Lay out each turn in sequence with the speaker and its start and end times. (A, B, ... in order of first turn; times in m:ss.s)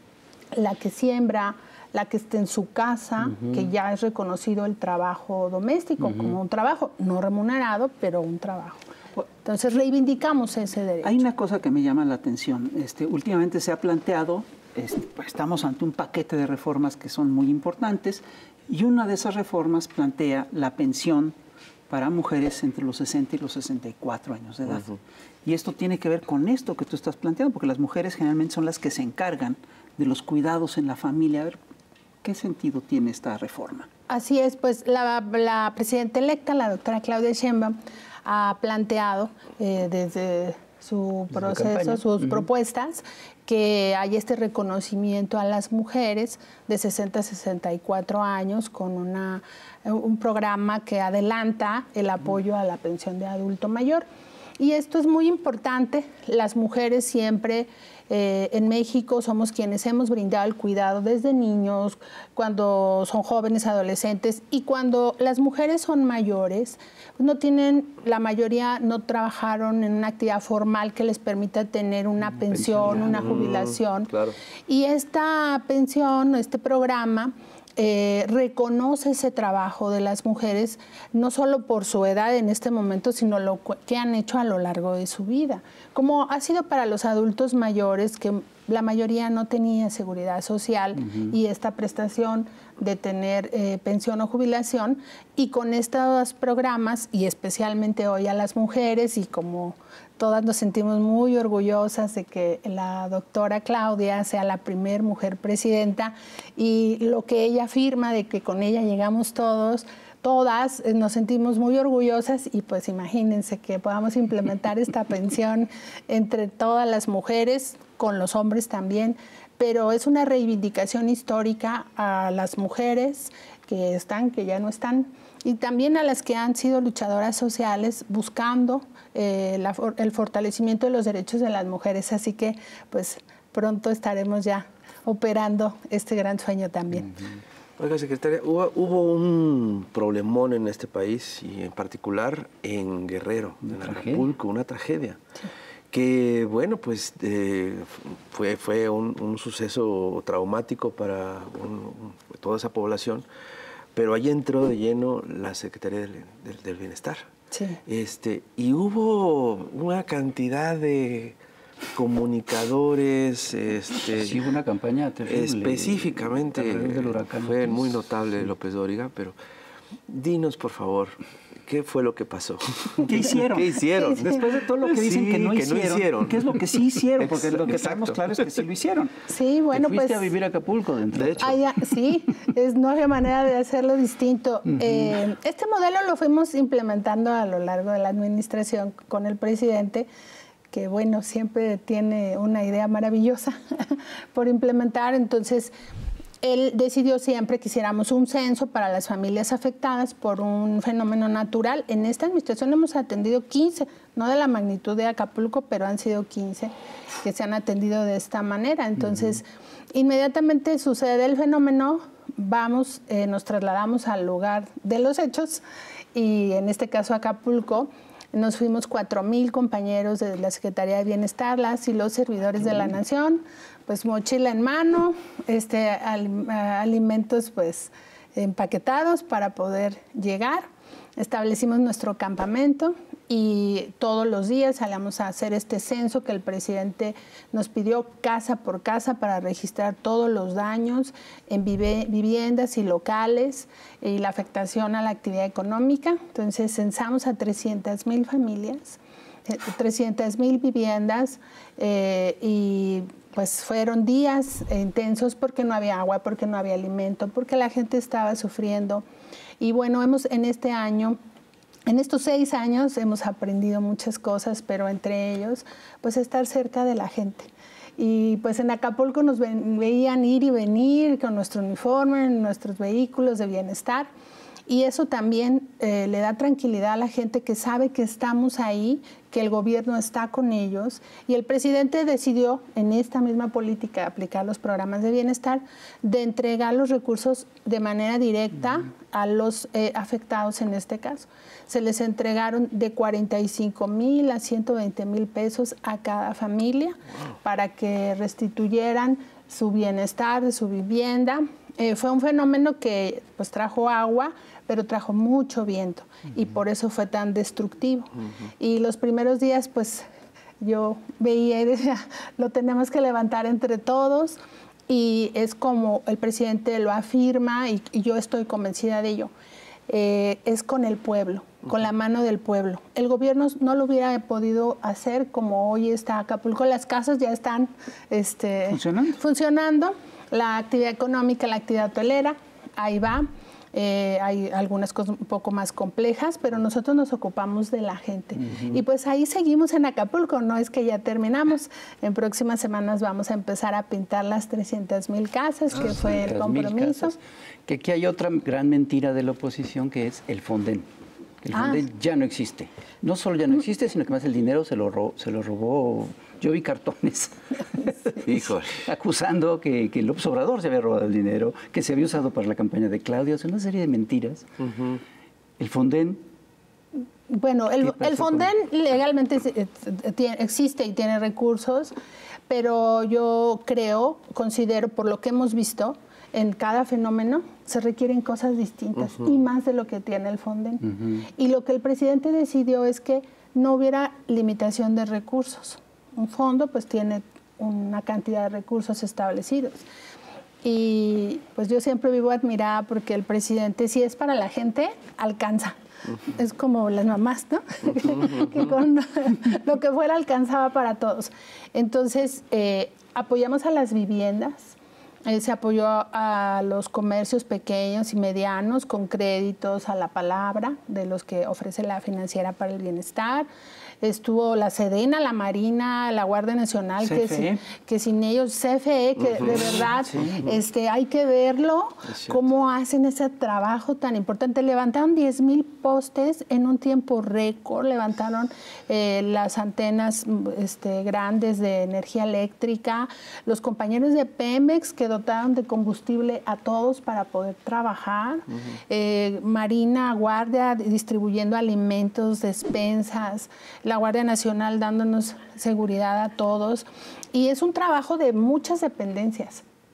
0:00.5-0:11.2 A
0:11.0-0:21.3 B
0:21.9-0:31.6 B
0:32.2-0:33.9 B
0:34.1-0:54.0 A
0:41.3-0:42.4 C
0:54.6-1:14.1 A
1:12.4-1:13.4 C
1:13.1-1:14.4 D
1:14.7-2:17.2 A
2:17.8-2:25.2 D
2:23.6-2:24.3 C
2:25.9-2:33.2 D
2:33.9-2:37.2 D
2:37.5-2:37.8 A
2:37.8-2:41.4 D
2:41.9-2:44.4 D
2:44.1-2:48.0 C
2:45.3-2:49.4 D
2:50.1-2:56.4 D
2:53.0-2:59.1 B
2:53.9-2:54.4 A
2:57.2-2:58.2 D
2:59.3-3:00.3 A
2:59.7-3:01.6 C
3:01.4-3:10.1 A
3:10.7-3:15.7 A
3:16.4-3:35.6 A
3:36.1-3:50.6 A
3:51.2-4:19.0 A
4:19.6-4:21.2 A
4:21.9-4:34.1 A
4:34.7-5:10.0 A
5:10.6-5:19.3 A
5:19.9-5:47.2 A
5:28.7-5:29.2 B
5:45.8-5:50.9 C
5:51.4-6:04.5 C
5:51.5-5:51.8 A
6:05.6-6:06.2 C
6:07.3-6:11.9 A
6:12.5-6:29.8 A
6:20.8-6:21.2 C
6:30.6-6:53.5 A
6:54.0-7:29.6 A
6:57.0-6:57.6 B
6:59.4-6:59.7 D